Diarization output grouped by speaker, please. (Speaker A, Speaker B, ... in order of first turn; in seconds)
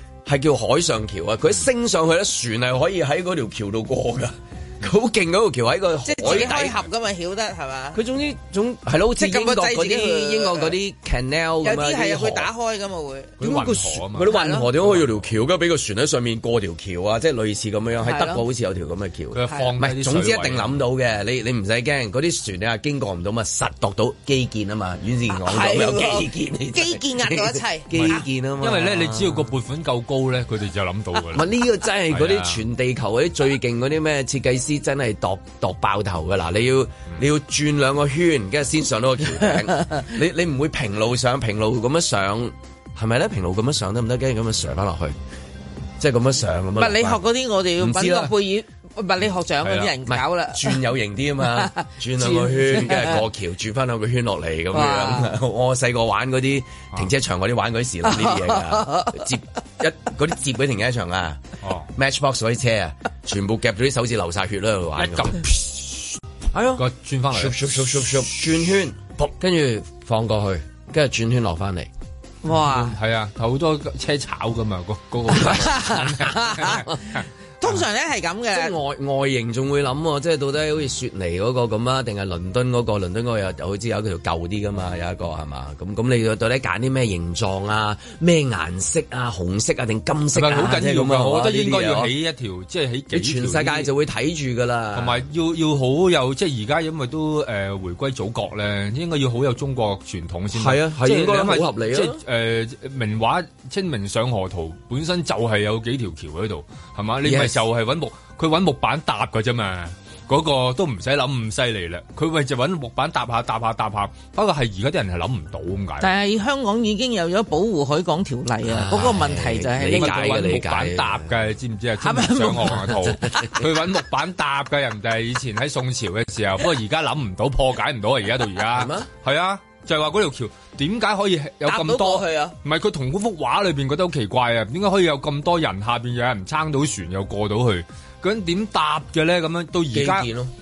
Speaker A: 0.3-6.8, 7.9-12.5, 13.4-29.5, 31.3-45.2, 46.0-47.2, 47.8-48.4, 50.0-61.4, 62.0-65.4, 66.5-71.9, 78.5-92.1, 93.1-95.2, 100.5-102.2, 107.2-107.6, 118.7-121.3, 128.7-129.1, 131.7-132.6, 139.9-140.5
Speaker B: 6.0-8.0, 9.2-10.7, 11.6-13.4, 14.2-14.7, 18.0-18.4, 25.3-28.2, 46.8-50.8, 51.5-53.2, 54.7-55.3, 58.1-59.2, 72.4-72.9, 75.4-76.8, 77.6-78.7, 116.0-120.5, 122.0-123.5
Speaker C: 6.2-6.6, 13.4-15.3, 19.3-20.8, 28.0-31.5, 32.1-32.6, 49.6-49.9, 61.6-61.9, 65.0-66.1, 66.8-68.0, 72.5-77.2, 90.3-93.9, 94.9-116.1, 119.9-140.3